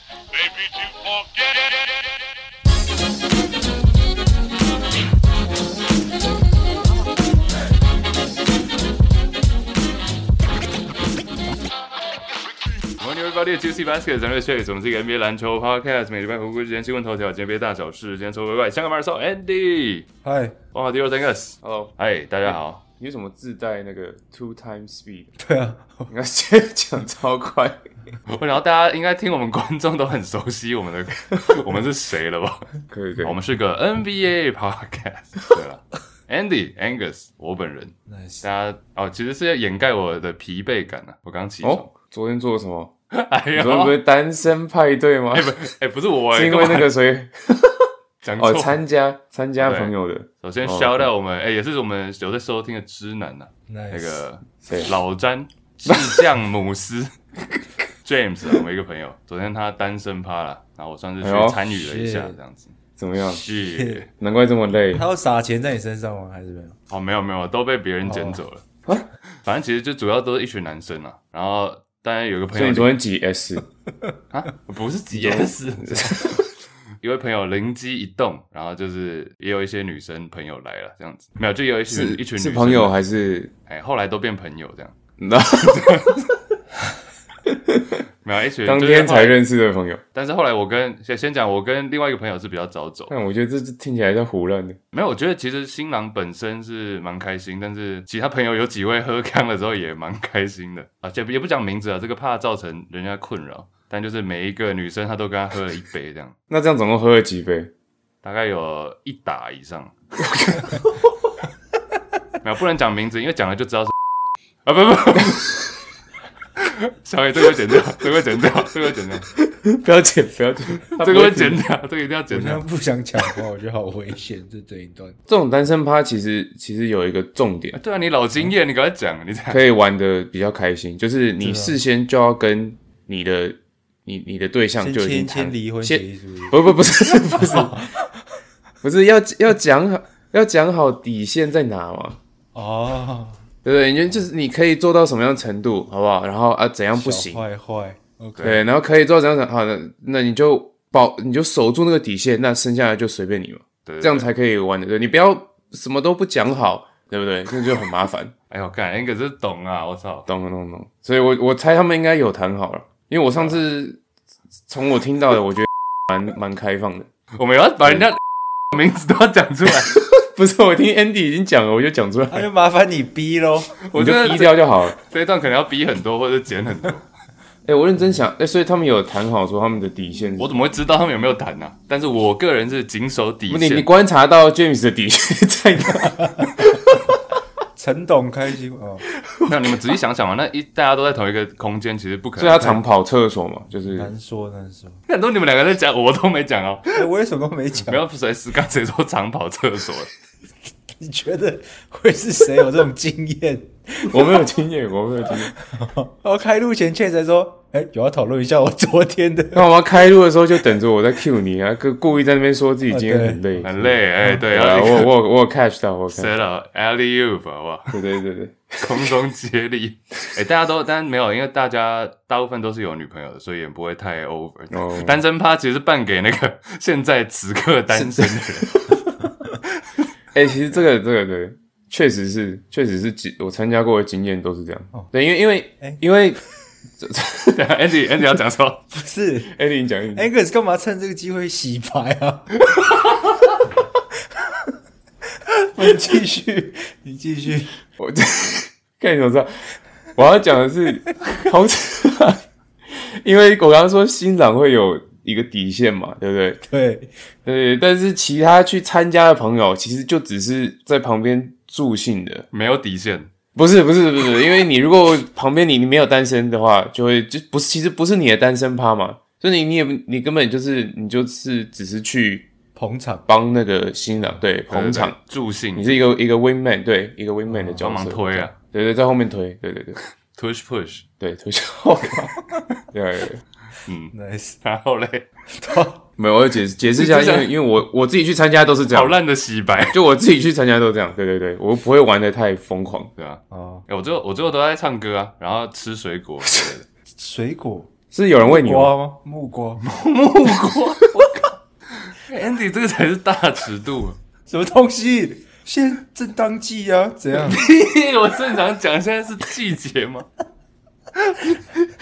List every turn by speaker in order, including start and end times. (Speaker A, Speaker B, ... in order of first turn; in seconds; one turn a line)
Speaker A: 0.3-2.3
Speaker B: 13.0-20.1
Speaker C: 20.2-20.6
Speaker B: 20.7-22.9
Speaker D: 21.6-21.9
Speaker D: 22.5-25.3
Speaker C: 25.4-26.1
Speaker D: 26.1-27.8
Speaker B: 28.3-41.9
Speaker D: 32.9-33.4
Speaker C: 38.1-38.5
Speaker D: 41.6-42.9
Speaker B: 43.1-44.0
Speaker D: 43.5-45.5
Speaker B: 45.3-46.9
Speaker D: 46.3-47.9
Speaker B: 48.2-48.8
Speaker D: 48.4-51.1
Speaker B: 49.6-57.1
Speaker C: 53.7-54.2
Speaker D: 54.6-54.9
Speaker D: 55.9-56.3
Speaker B: 58.0-64.1
Speaker D: 61.2-61.6
Speaker C: 61.7-62.4
Speaker D: 63.0-63.4
Speaker C: 63.6-64.0
Speaker D: 64.2-65.0
Speaker C: 64.9-66.8
Speaker B: 66.9-68.6
Speaker C: 68.0-68.4
Speaker B: 69.4-72.9
Speaker D: 72.5-73.6
Speaker B: 74.3-82.9
Speaker D: 75.1-76.5
Speaker D: 81.9-83.5
Speaker B: 83.7-84.9
Speaker D: 85.2-86.3
Speaker D: 87.5-88.0
Speaker B: 88.2-89.4
Speaker D: 88.6-90.0
Speaker B: 90.1-93.1
Speaker D: 93.1-94.8
Speaker B: 94.9-106.3
Speaker D: 106.5-107.7
Speaker B: 108.2-109.9
Speaker D: 110.2-110.9
Speaker B: 112.4-113.9
Speaker B: 114.6-115.7
Speaker B: 116.6-119.3
Speaker D: 119.4-121.6
Speaker B: 120.9-122.6
Speaker C: 122.3-125.2
Speaker D: 125.3-127.8
Speaker B: 127.8-129.6
Speaker D: 129.5-137.9
Speaker C: 131.4-131.8
Speaker C: 134.8-136.8
Speaker C: 137.3-138.0
Speaker D: 138.8-142.2
Speaker C: 142.5-143.4
Speaker D: 143.6-147.4
Speaker C: 146.9-148.6
Speaker D: 148.4-158.3
Speaker B: 153.8-154.3
Speaker B: 158.5-160.3
Speaker D: 160.3-164.0
Speaker D: 164.7-167.1
Speaker B: 167.3-169.9
Speaker D: 169.8-172.5
Speaker C: 172.3-173.7
Speaker B: 173.8-177.1
Speaker D: 173.9-174.9
Speaker D: 177.7-180.5
Speaker B: 180.4-183.9
Speaker D: 183.5-187.1
Speaker C: 187.8-189.1
Speaker D: 189.2-189.8
Speaker B: 189.5-192.8
Speaker D: 192.4-194.1
Speaker C: 193.9-195.0
Speaker B: 195.1-196.9
Speaker C: 196.9-198.0
Speaker B: 197.8-200.1
Speaker C: 201.0-204.6
Speaker D: 204.1-205.5
Speaker C: 205.5-209.7
Speaker D: 209.5-214.0
Speaker C: 212.9-213.6
Speaker B: 213.6-215.1
Speaker D: 214.5-216.3
Speaker B: 216.1-218.1
Speaker D: 217.9-219.1
Speaker B: 218.8-228.9
Speaker D: 224.7-225.2
Speaker D: 227.9-229.1
Speaker D: 230.3-236.4
Speaker D: 237.0-237.6
Speaker B: 237.5-238.8
Speaker C: 238.9-239.5
Speaker D: 239.5-240.3
Speaker C: 240.1-242.6
Speaker B: 242.7-243.3
Speaker C: 245.6-247.8
Speaker D: 248.0-256.6
Speaker C: 256.7-257.1
Speaker D: 257.4-262.5
Speaker B: 262.5-263.3
Speaker D: 263.6-272.5
Speaker C: 272.8-273.2
Speaker D: 273.3-275.2
Speaker B: 274.7-276.0
Speaker D: 275.8-280.0
Speaker C: 277.5-277.8
Speaker B: 277.8-278.5
Speaker B: 280.3-281.1
Speaker D: 281.2-283.4
Speaker B: 283.9-285.2
Speaker C: 284.1-284.6
Speaker C: 285.5-286.1
Speaker D: 286.2-289.2
Speaker B: 286.9-287.5
Speaker B: 288.9-290.0
Speaker D: 289.9-293.1
Speaker B: 293.2-296.9
Speaker C: 293.5-293.9
Speaker C: 297.1-299.8
Speaker D: 298.1-298.9
Speaker B: 299.8-304.2
Speaker C: 304.5-307.6
Speaker B: 307.4-310.3